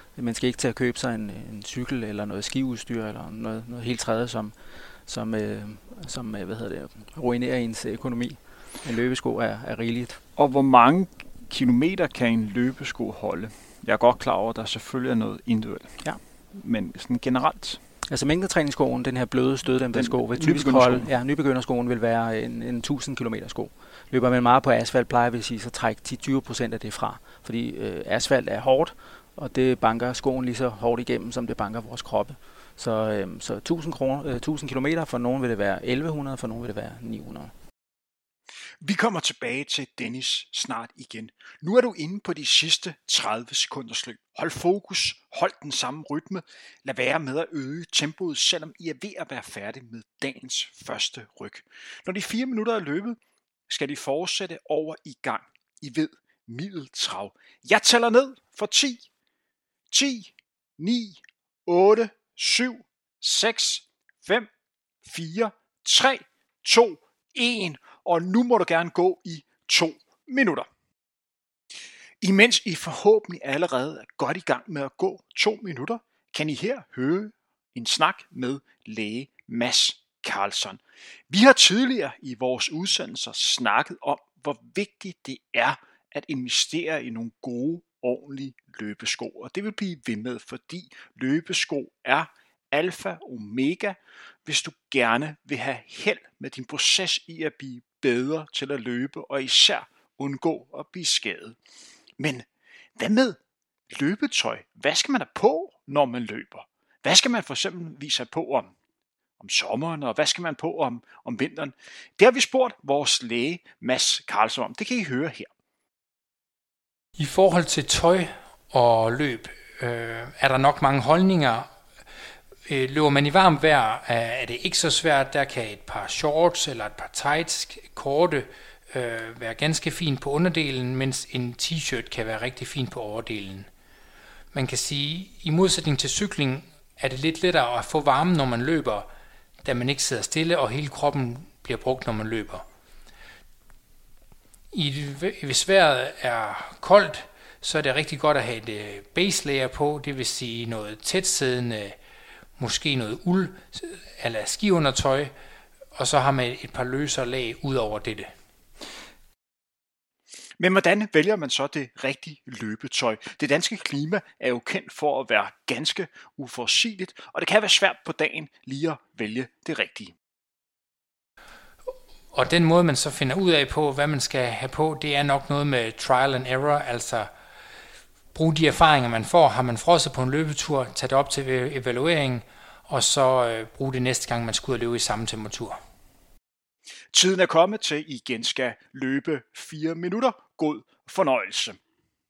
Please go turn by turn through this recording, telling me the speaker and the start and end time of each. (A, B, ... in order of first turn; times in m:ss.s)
0:00.1-0:04.5 A
0:05.0-0:10.2 A
0:10.4-0:17.8 B
0:18.1-0:37.5 A
0:19.9-0:21.1 B
0:38.8-0:53.2 B
0:53.7-0:59.1 B
0:59.9-1:04.5 B
1:05.0-1:10.7 B
1:12.2-1:41.6 B
1:42.2-1:42.4 B
1:43.0-1:43.4 B
1:43.9-1:48.7 B
1:49.4-1:55.5 B
1:57.2-2:01.7 C
2:02.6-2:13.7 C
2:14.5-2:19.1 C
2:19.6-2:22.6 C
2:24.7-2:32.0 C
2:32.6-2:35.3 C
2:35.9-2:38.3 C
2:40.6-2:50.1 B
2:52.3-2:57.3 C
2:58.3-3:05.8 C
3:07.1-3:11.8 B